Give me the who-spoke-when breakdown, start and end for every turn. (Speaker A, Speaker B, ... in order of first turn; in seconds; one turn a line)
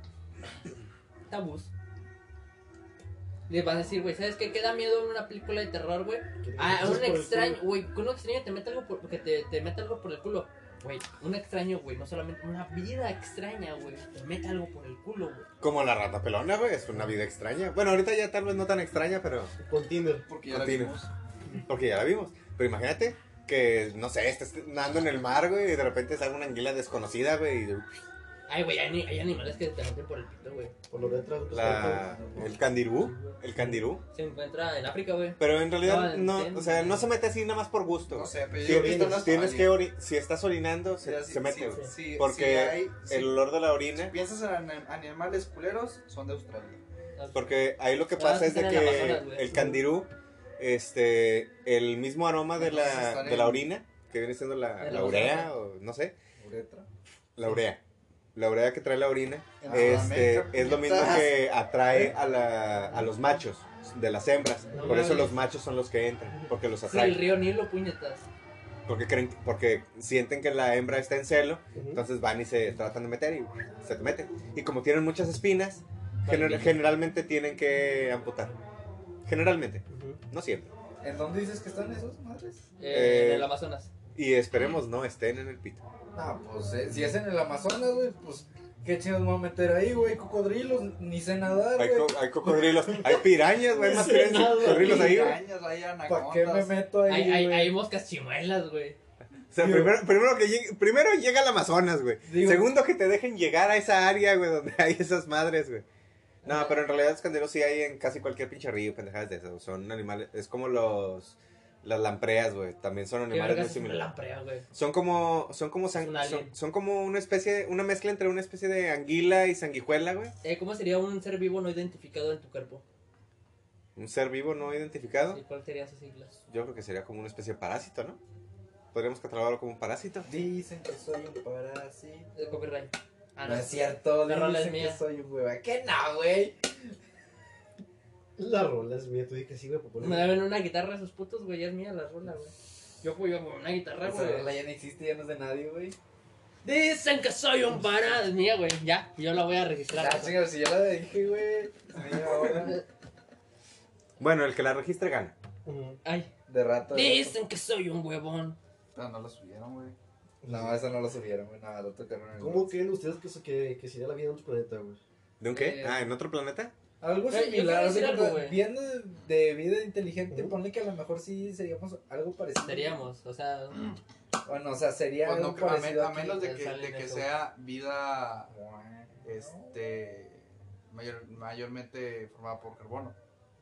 Speaker A: 1.3-1.7
Speaker A: 3.5-15.5
Speaker B: 6.4-7.6
Speaker C: 15.6-19.6
Speaker B: 19.6-20.3
Speaker D: 20.3-21.1
Speaker C: 20.5-20.9
Speaker C: 21.6-27.9
Speaker A: 28.5-30.7
Speaker B: 30.9-33.8
Speaker C: 31.5-34.0
Speaker A: 34.1-37.1
Speaker C: 35.4-44.1
Speaker D: 38.1-39.8
Speaker B: 38.6-39.3
Speaker D: 41.0-43.3
Speaker D: 44.0-46.8
Speaker A: 47.2-47.6
Speaker C: 47.3-56.1
Speaker A: 48.2-49.8
Speaker D: 52.6-53.7
Speaker A: 54.8-55.5
Speaker D: 56.4-56.9
Speaker C: 57.4-57.8
Speaker C: 58.3-67.2
Speaker D: 59.6-61.3
Speaker A: 64.7-65.4
Speaker A: 66.9-68.3
Speaker C: 68.9-78.5
Speaker B: 71.8-72.0
Speaker A: 76.2-76.8
Speaker C: 79.2-80.7
Speaker B: 79.9-80.2
Speaker E: 81.0-82.6
Speaker A: 82.8-83.9
Speaker C: 82.9-83.5
Speaker C: 84.2-85.8
Speaker E: 86.1-92.1
Speaker C: 91.8-95.4
Speaker A: 93.8-95.3
Speaker D: 94.5-96.8
Speaker E: 94.7-95.0
Speaker E: 96.1-97.8
Speaker A: 97.1-99.0
Speaker C: 99.5-105.8
Speaker E: 99.6-100.0
Speaker E: 102.2-102.7
Speaker A: 106.4-106.8
Speaker C: 106.4-114.1
Speaker A: 113.3-114.7
Speaker C: 114.7-120.3
Speaker A: 115.9-116.5
Speaker A: 120.4-122.8
Speaker C: 124.0-125.4
Speaker A: 125.3-126.4
Speaker C: 126.5-128.2
Speaker C: 128.9-130.3
Speaker E: 130.2-132.3
Speaker A: 132.3-135.0
Speaker E: 133.4-136.6
Speaker B: 138.4-140.4
Speaker A: 140.0-144.5
Speaker E: 144.0-145.9
Speaker A: 146.6-150.5
Speaker E: 149.9-152.8
Speaker C: 154.2-155.3
Speaker B: 155.6-156.0
Speaker A: 156.0-156.3
Speaker E: 156.5-157.4
Speaker A: 156.9-158.6
Speaker D: 158.9-159.9
Speaker E: 160.4-162.8
Speaker B: 160.5-160.8
Speaker B: 162.4-165.0
Speaker C: 165.4-166.7
Speaker A: 165.5-166.0
Speaker E: 167.0-173.0
Speaker A: 167.3-168.6
Speaker B: 170.3-170.6
Speaker A: 172.6-173.9
Speaker E: 174.4-176.2
Speaker D: 175.2-183.2
Speaker A: 176.1-177.3
Speaker E: 178.5-179.7